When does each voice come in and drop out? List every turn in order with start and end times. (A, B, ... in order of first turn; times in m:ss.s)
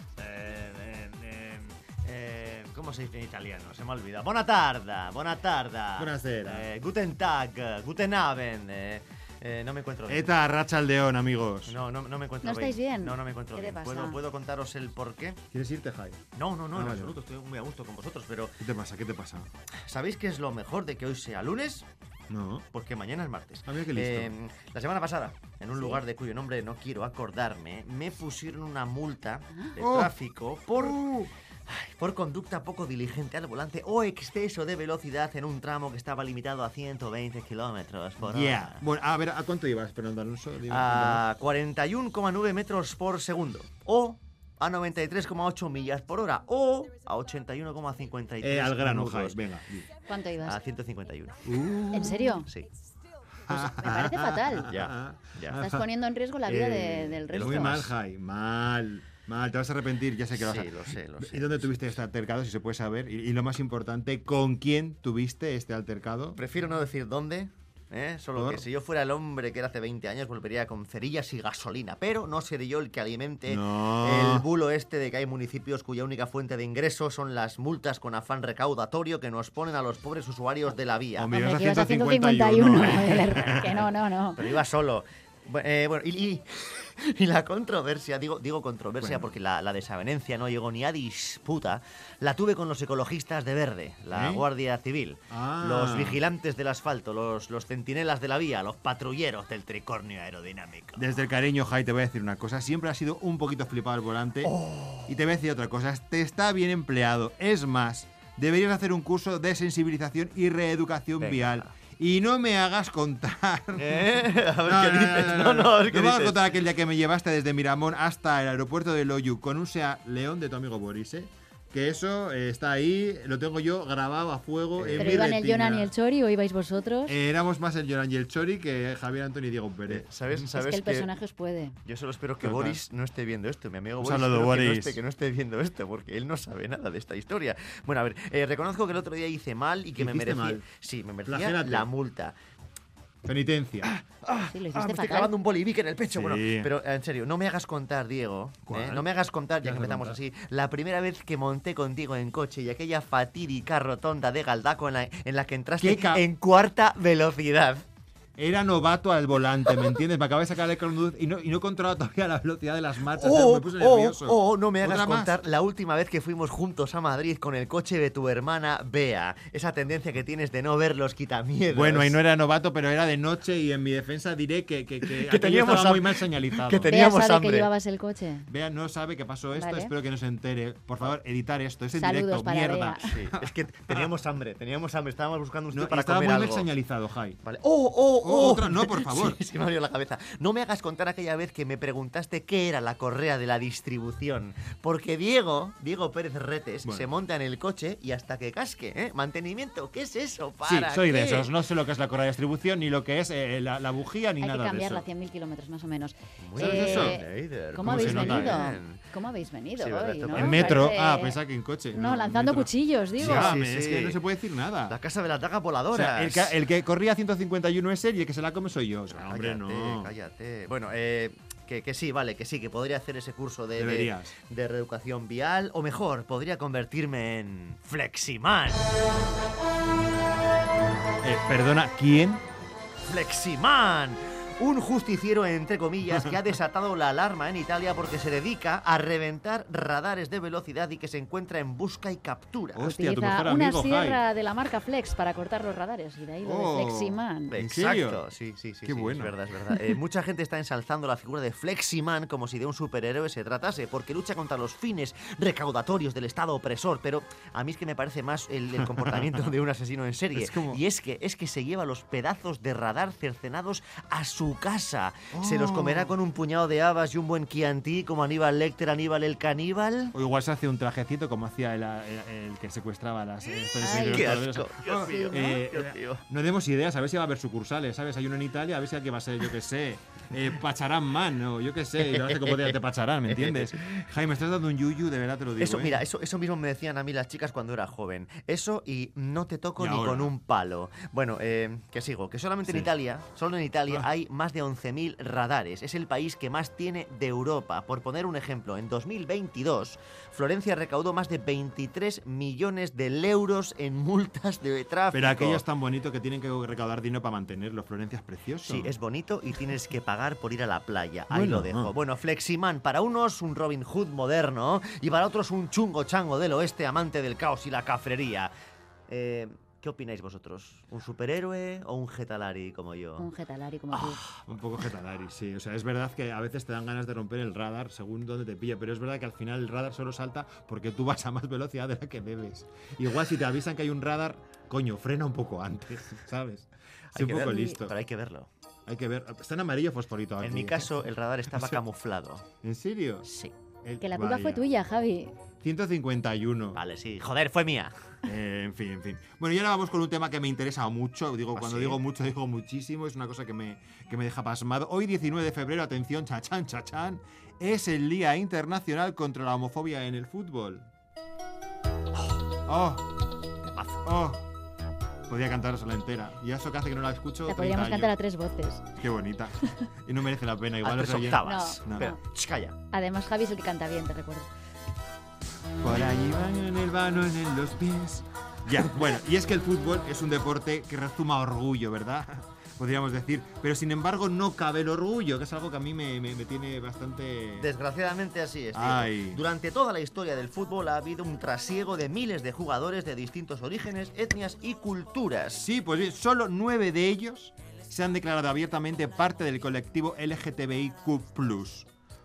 0:00.2-0:10.3 A
0:06.0-0:06.7 B
0:10.1-0:11.8 B
0:11.7-0:15.4 A
0:12.4-0:14.2 C
0:15.5-0:16.2 B
0:16.4-0:18.6 A
0:16.7-0:17.2 B
0:18.6-0:19.5 B
0:19.9-0:21.9 A
0:22.3-0:22.7 B
0:22.7-0:31.0 A
0:23.7-0:24.3 B
0:29.8-0:30.1 B
0:30.8-0:31.3 B
0:31.7-0:38.8 A
0:38.2-0:41.2 B
0:40.7-0:49.4 A
0:48.4-0:49.9 B
0:50.1-0:50.6 C
0:50.4-0:52.7 A
0:51.5-0:52.4 B
0:51.9-0:52.5 C
0:53.5-0:55.9 B
0:53.5-0:54.7 C
0:54.7-0:55.6 A
0:55.6-0:57.8 C
0:56.5-1:06.4 B
0:57.3-0:57.9 A
1:00.3-1:01.7 A
1:06.4-1:21.3 A
1:08.4-1:08.6 B
1:13.5-1:14.5 B
1:21.2-1:23.9 B
1:21.3-1:24.5 C
1:24.4-1:41.1 A
1:29.0-1:29.3 B
1:34.1-1:34.4 B
1:35.3-1:36.2 B
1:41.0-2:05.9 B
1:44.4-1:45.1 A
1:51.2-1:51.6 A
1:53.8-1:56.5 A
2:04.8-2:05.3 A
2:05.0-2:07.2 C
2:07.1-2:10.1 B
2:09.9-2:11.1 A
2:10.6-2:11.8 C
2:11.9-2:22.4 A
2:12.4-2:12.8 B
2:14.0-2:15.0 B
2:20.0-2:20.6 B
2:21.3-2:21.9 B
2:23.2-2:23.9 B
2:23.8-2:37.8 A
2:24.5-2:25.3 C
2:26.1-2:26.7 B
2:28.7-2:29.1 B
2:29.6-2:30.2 B
2:35.8-2:36.2 B
2:38.4-2:45.4 B
2:43.1-2:52.2 A
2:51.7-2:56.9 B
2:55.1-2:57.7 A
2:56.9-2:58.5 C
2:58.5-3:04.1 B
2:59.5-2:59.9 C
3:02.0-3:03.1 C
3:03.1-3:06.7 A
3:05.7-3:07.4 B
3:07.4-3:21.5 A
3:08.2-3:09.4 B
3:20.6-3:25.0 B
3:24.4-3:31.4 C
3:26.4-3:29.0 A
3:26.6-3:27.2 B
3:27.8-3:28.6 B
3:29.8-3:30.8 A
3:30.3-3:35.0 B
3:31.9-3:33.6 C
3:33.2-3:34.2 A
3:34.9-3:36.6 A
3:35.9-3:40.1 B
3:39.1-3:48.9 A
3:43.8-3:44.3 B
3:51.2-3:52.4 B
3:53.1-4:02.8 A
4:02.8-4:04.2 B
4:02.8-4:07.6 C
4:06.4-4:08.2 B
4:07.5-4:30.1 A
4:08.8-4:09.4 B
4:20.3-4:20.8 B
4:25.3-4:26.1 B
4:30.1-4:46.0 B
4:33.8-4:34.3 C
4:33.8-4:36.2 A
4:35.0-4:35.6 C
4:42.1-4:44.0 A
4:45.6-5:05.6 A
4:49.8-4:50.3 B
5:05.1-5:08.9 B
5:08.6-5:18.5 A
5:11.3-5:11.9 B
5:19.1-5:23.3 A
5:23.2-5:24.2 C
5:24.0-5:24.4 A
5:24.4-5:38.0 B
5:37.1-5:38.5 A
5:38.9-5:40.9 B
5:40.4-5:42.5 A
5:41.5-5:41.8 B
5:42.6-5:43.3 B
5:43.3-5:43.5 A
5:43.8-5:44.6 B
5:44.0-5:45.4 C
5:45.6-5:46.8 B
5:46.8-5:47.9 A
5:48.2-6:00.9 B
5:51.6-5:52.0 A
6:02.7-6:03.0 B
6:03.7-6:04.0 A
6:04.0-6:04.4 B
6:05.3-6:08.1 B
6:07.5-6:08.9 C
6:09.0-6:12.1 B
6:10.8-6:12.8 A
6:11.4-6:12.2 C
6:12.9-6:14.5 C
6:15.8-6:27.7 B
6:27.6-6:35.7 A
6:28.7-6:29.4 B
6:35.6-6:41.9 B